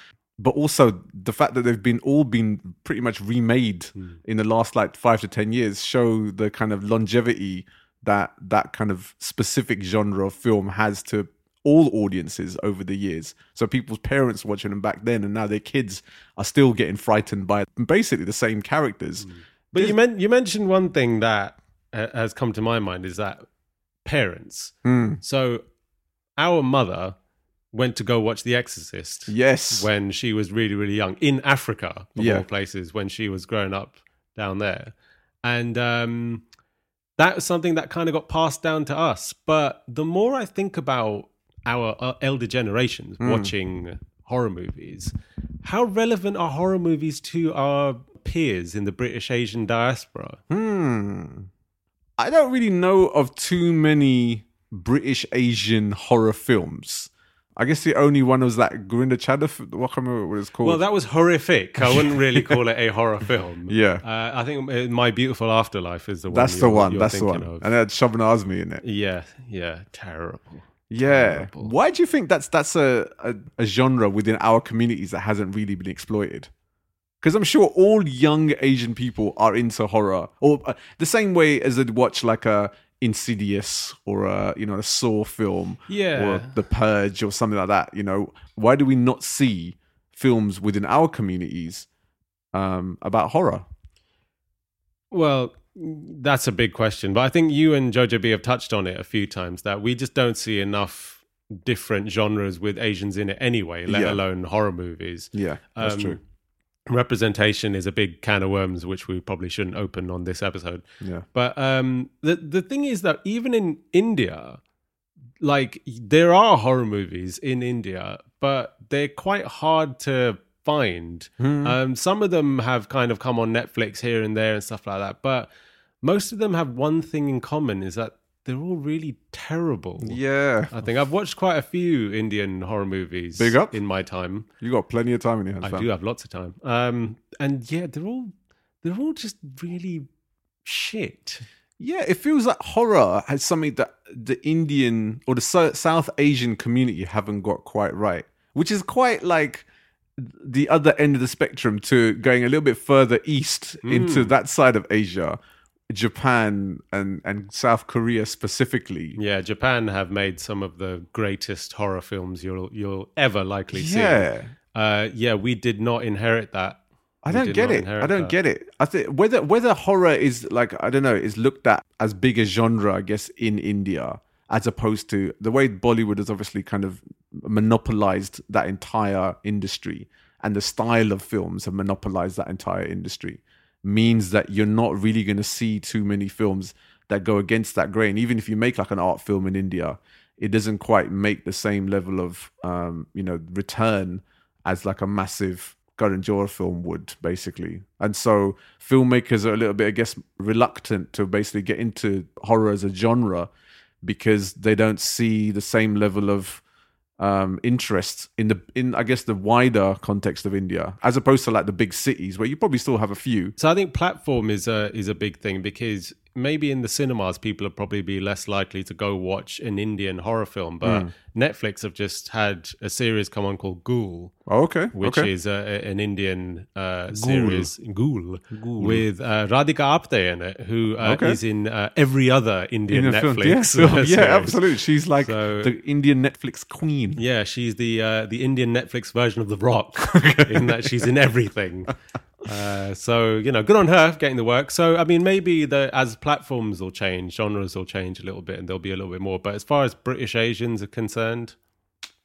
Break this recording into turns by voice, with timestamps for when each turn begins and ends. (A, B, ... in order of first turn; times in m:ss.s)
0:00.4-0:20.0 A
0:19.2-0:23.4 B
0:24.0-0:25.6 B
0:24.8-0:25.2 A
0:26.4-0:27.1 B
0:27.7-0:36.4 B
0:29.3-0:29.9 A
0:32.2-0:32.4 A
0:37.2-0:50.4 B
0:43.2-0:43.5 A
0:50.5-0:51.5 A
0:52.2-1:00.8 A
1:00.6-1:07.7 B
1:01.8-1:02.6 A
1:03.7-1:04.0 A
1:06.3-1:08.8 A
1:08.8-1:11.7 B
1:10.9-1:16.5 A
1:17.2-1:31.9 A
1:25.9-1:26.5 B
1:32.5-1:33.6 A
1:35.1-1:46.2 B
1:43.9-1:44.2 A
1:45.3-1:46.2 A
1:46.9-1:50.8 B
1:51.0-1:51.2 A
1:51.3-1:54.6 B
1:55.4-2:05.5 B
2:01.4-2:01.8 A
2:06.0-2:10.2 B
2:10.0-2:10.8 A
2:10.7-2:14.5 B
2:13.4-2:13.7 A
2:14.6-2:15.9 A
2:15.6-2:20.1 B
2:20.6-2:21.4 B
2:21.8-2:29.6 A
2:30.2-2:35.4 A
2:33.8-2:34.3 B
2:35.9-2:39.2 A
2:39.2-2:48.3 B
2:43.7-2:44.5 A
2:47.2-3:23.5 A
3:24.0-3:26.6 A
3:27.2-3:33.5 A
3:33.6-3:44.3 B
3:40.8-3:41.1 A
3:44.5-3:45.3 A
3:45.0-3:54.6 B
3:47.1-3:47.7 A
3:48.5-3:49.0 A
3:51.0-3:51.4 A
3:52.9-3:57.2 A
3:55.2-3:55.7 B
3:57.2-4:11.5 B
4:00.0-4:01.0 A